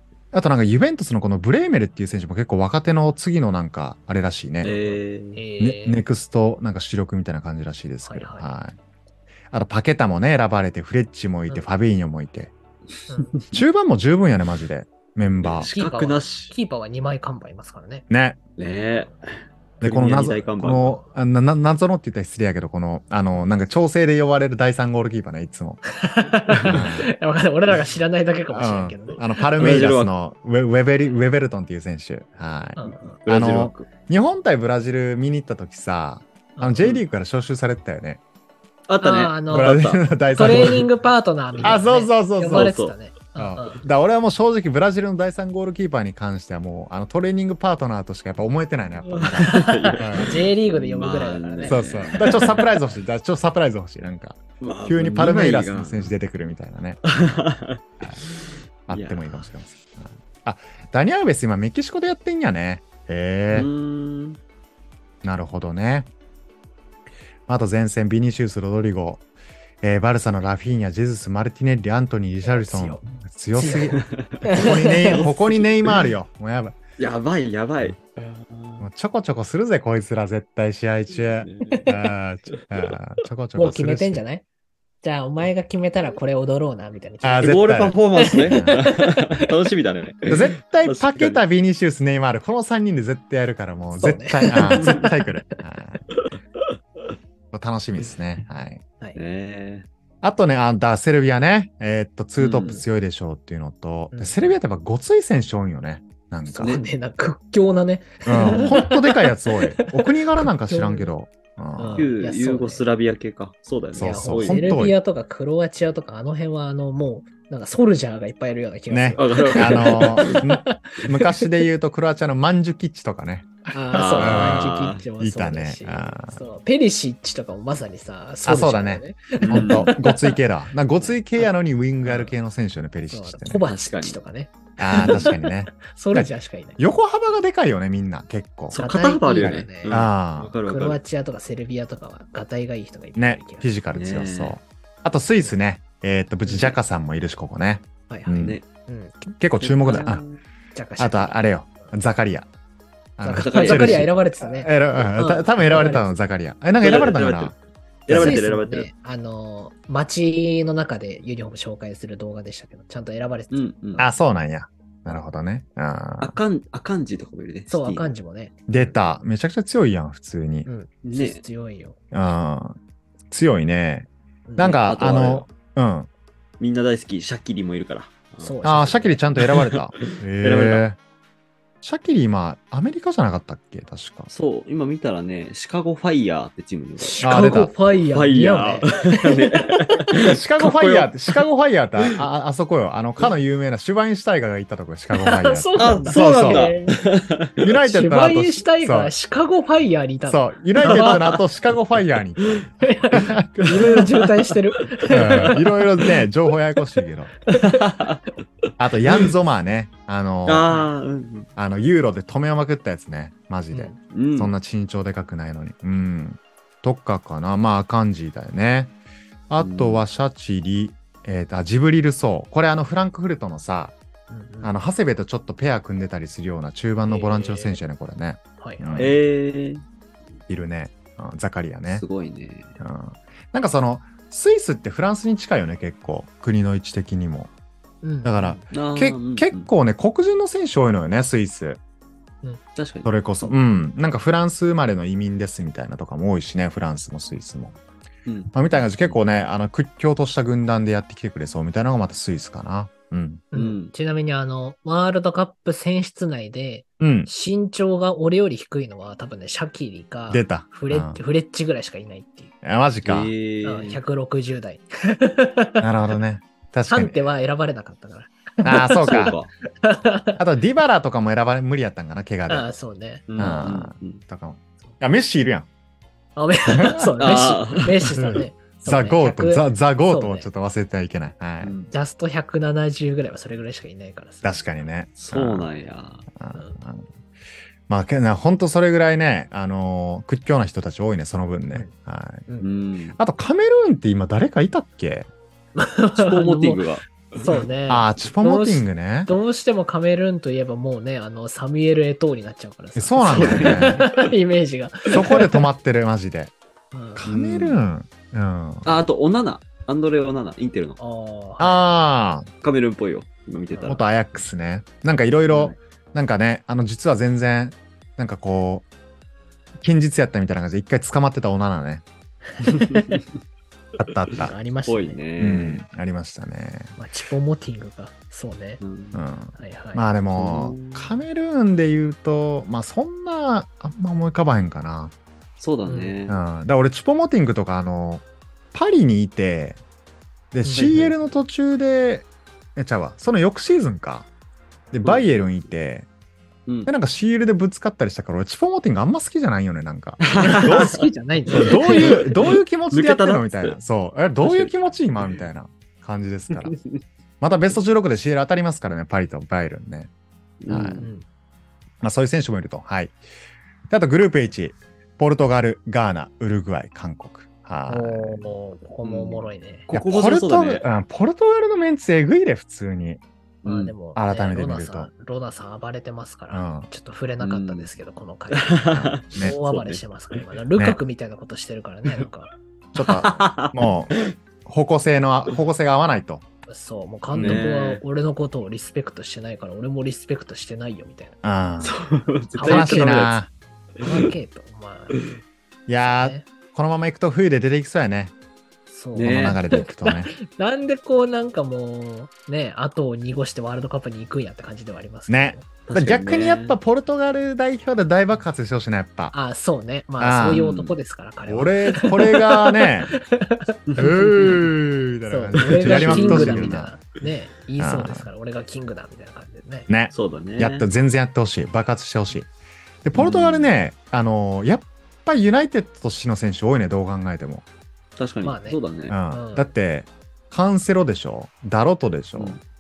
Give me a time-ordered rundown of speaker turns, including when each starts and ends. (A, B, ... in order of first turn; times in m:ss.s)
0:00.3-0:04.7 A
0:04.6-0:05.4 B
0:04.6-0:06.0 C
0:05.6-0:08.8 A
0:08.0-0:08.5 C
0:09.5-0:12.5 A
0:13.1-0:13.4 C
0:13.2-0:13.6 B
0:13.5-0:15.7 A
0:15.4-0:16.5 B
0:15.7-0:18.0 C
0:18.1-0:18.4 A
0:18.6-0:21.0 B
0:19.8-0:25.8 A
0:25.9-0:29.5 C
0:26.5-0:26.9 B
0:26.7-0:27.1 A
0:28.5-0:38.2 A
0:29.6-0:30.1 B
0:32.8-0:33.2 C
0:33.2-0:33.9 B
0:36.6-0:36.9 C
0:38.9-0:40.9 B
0:39.0-0:39.8 C
0:39.5-0:40.9 A
0:40.3-0:43.8 C
0:41.6-0:41.8 B
0:41.6-0:42.7 A
0:42.5-0:43.0 B
0:43.4-0:50.3 A
0:49.1-0:52.6 C
0:49.3-0:52.7 B
0:51.7-0:57.0 A
0:54.6-0:56.1 B
0:57.1-0:59.5 B
0:58.9-1:03.7 A
1:03.5-1:04.4 B
1:05.2-1:06.1 A
1:07.5-1:09.2 A
1:09.8-1:16.8 A
1:12.4-1:13.0 C
1:13.6-1:15.3 C
1:13.9-1:16.1 B
1:17.0-1:18.9 B
1:18.8-1:24.2 A
1:21.1-1:21.9 B
1:21.7-1:22.0 C
1:22.5-1:23.0 B
1:23.6-1:24.4 C
1:25.0-1:27.6 C
1:27.2-1:28.9 A
1:27.4-1:31.4 B
1:28.2-1:29.5 C
1:30.3-1:36.0 A
1:34.0-1:35.6 C
1:34.7-1:35.1 B
1:36.1-1:36.4 B
1:37.5-1:38.8 A
1:39.2-1:39.9 B
1:40.2-1:46.8 A
1:42.4-1:42.8 B
1:44.1-1:44.5 C
1:46.5-1:51.1 C
1:48.3-1:52.1 A
1:51.8-1:52.8 C
1:52.0-1:54.8 B
1:54.0-1:55.0 A
1:54.0-2:01.5 C
1:58.9-2:06.4 A
1:59.2-2:00.4 B
2:03.7-2:10.4 C
2:03.9-2:05.0 B
2:08.4-2:13.6 A
2:09.4-2:09.9 B
2:11.0-2:11.5 C
2:12.0-2:12.3 C
2:13.1-2:16.8 C
2:13.7-2:14.2 B
2:14.8-2:18.8 A
2:18.7-2:21.0 B
2:18.7-2:20.0 C
2:19.4-2:20.5 A
2:20.7-2:23.7 C
2:23.2-2:28.6 A
2:23.9-2:24.6 B
2:26.5-2:26.8 C
2:28.1-2:29.2 C
2:29.3-2:30.2 A
2:29.6-2:30.4 B
2:30.7-2:31.9 C
2:31.0-2:32.5 A
2:33.2-2:37.6 A
2:33.2-2:36.1 C
2:33.3-2:34.1 B
2:36.8-2:37.6 B
2:38.1-2:38.9 B
2:38.1-2:38.4 A
2:38.1-2:44.1 C
2:43.5-2:44.1 B
2:44.0-2:46.4 A
2:46.2-2:48.1 B
2:47.7-2:48.5 C
2:48.7-2:50.7 A
2:50.7-2:52.0 C
2:51.0-2:51.4 B
2:52.1-2:52.8 A
2:53.3-2:56.1 A
2:54.5-2:54.8 C
2:54.6-2:55.5 B
2:56.6-2:58.6 B
2:58.4-2:59.3 C
2:58.6-3:01.0 A
2:59.4-3:00.8 B
3:01.8-3:04.3 A
3:04.3-3:07.3 B
3:07.0-3:10.0 C
3:07.2-3:07.7 A
3:08.1-3:11.4 B
3:10.2-3:16.7 A
3:15.2-3:17.0 C
3:15.8-3:17.7 B
3:17.6-3:19.1 A
3:17.8-3:21.2 C
3:20.3-3:23.5 A
3:20.8-3:21.4 B
3:22.4-3:22.7 B
3:22.8-3:25.6 C
3:23.6-3:24.6 B
3:25.1-3:27.3 A
3:25.1-3:26.2 B
3:27.5-3:28.0 C
3:27.5-3:28.2 B
3:28.8-3:30.7 A
3:30.5-3:31.5 B
3:31.6-3:38.9 A
3:33.7-3:34.0 C
3:34.1-3:34.5 B
3:39.5-3:44.0 A
3:39.6-3:40.0 B
3:44.3-3:44.7 C
3:44.6-3:49.2 A
3:47.1-3:47.8 C
3:48.6-3:49.2 C
3:49.0-3:49.8 B
3:50.5-3:52.0 A
3:51.9-3:52.8 B
3:52.8-3:57.5 A
3:58.0-3:58.6 C
3:58.2-4:01.8 A
3:58.7-3:59.7 B
4:02.8-4:03.1 B
4:03.0-4:07.8 A
4:08.3-4:09.2 B
4:08.5-4:13.4 A
4:13.5-4:22.5 C
4:13.5-4:13.9 B
4:17.0-4:17.3 A
4:20.3-4:21.2 A
4:22.6-4:23.3 A
4:23.0-4:24.0 B
4:23.6-4:25.9 C
4:25.8-4:27.2 A
4:26.9-4:30.4 C
4:28.6-4:29.4 A
4:29.0-4:29.5 B
4:30.4-4:32.7 A
4:32.5-4:33.7 C
4:33.3-4:34.2 B
4:33.4-4:35.7 A
4:36.4-4:40.5 C
4:36.7-4:37.1 A
4:37.2-4:38.2 B
4:38.1-4:41.7 A
4:41.6-4:41.9 B
4:41.9-4:44.6 C
4:44.4-4:45.7 A
4:45.2-4:46.2 B
4:46.4-4:47.1 A
4:47.9-4:52.5 A
4:52.6-4:53.2 B
4:53.2-4:55.3 A
4:55.8-4:56.9 C
4:56.2-4:57.7 B
4:57.4-5:05.6 C
4:57.9-4:59.3 A
5:03.0-5:04.0 A
5:03.3-5:04.3 B
5:05.1-5:06.5 A
5:06.9-5:07.2 C
5:07.2-5:08.9 A
5:07.3-5:07.8 B
5:08.8-5:11.0 B
5:11.0-5:12.0 C
5:11.6-5:12.5 A
5:12.6-5:14.0 B
5:13.7-5:14.0 C
5:13.9-5:18.9 A
5:15.5-5:15.8 B
5:19.8-5:22.0 A
5:22.6-5:23.2 C
5:22.7-5:23.2 B
5:24.0-5:24.5 A
5:24.4-5:25.2 C
5:24.9-5:25.8 B
5:25.4-5:26.9 A
5:27.0-5:28.8 C
5:28.8-5:29.2 B
5:29.1-5:35.1 A
5:29.6-5:30.1 C
5:30.4-5:31.2 B
5:35.6-5:36.4 B
5:35.9-5:36.2 C
5:36.3-5:39.8 A
5:40.5-5:44.3 A
5:40.6-5:40.9 C
5:40.8-5:41.2 B
5:44.9-5:46.1 A
5:45.0-5:45.5 B
5:46.9-5:56.8 A
5:50.2-5:53.8 B
5:50.3-5:52.4 C
5:54.4-5:54.7 B
5:56.5-5:57.0 B
5:57.4-6:00.1 A
6:00.6-6:01.1 B
6:00.7-6:01.1 A
6:02.0-6:03.2 A
6:03.9-6:08.5 A
6:07.9-6:09.9 C
6:09.0-6:10.8 B
6:09.9-6:13.2 A
6:13.6-6:14.0 B
6:13.6-6:22.5 C
6:14.2-6:15.1 A
6:16.5-6:16.9 A
6:17.4-6:17.9 B
6:18.5-6:20.5 B
6:23.0-6:26.4 A
6:23.0-6:24.4 B
6:26.7-6:31.4 C
6:27.4-6:28.0 B
6:27.4-6:27.6 A
6:31.4-6:32.0 A
6:31.8-6:33.4 B
6:32.6-6:33.3 C
6:32.6-6:33.5 A
6:34.0-6:34.3 B
6:34.0-6:35.2 C
6:35.9-6:38.3 A
6:36.0-6:36.5 C
6:38.9-6:45.8 C
6:39.2-6:39.6 B
6:39.2-6:40.3 A
6:45.3-6:49.3 A
6:45.9-6:46.8 B
6:49.3-6:54.5 C
6:50.2-6:50.6 A
6:50.5-6:51.0 B
6:51.5-6:53.2 A
6:53.9-6:54.6 B
6:54.0-6:57.0 A
6:55.3-6:59.9 C
6:55.7-6:56.8 B
6:57.8-6:58.3 A
6:59.9-7:02.5 A
7:00.1-7:00.9 B
7:03.0-7:07.6 A
7:03.2-7:03.7 B
7:08.2-7:09.2 B
7:08.4-7:09.7 C
7:09.1-7:12.6 A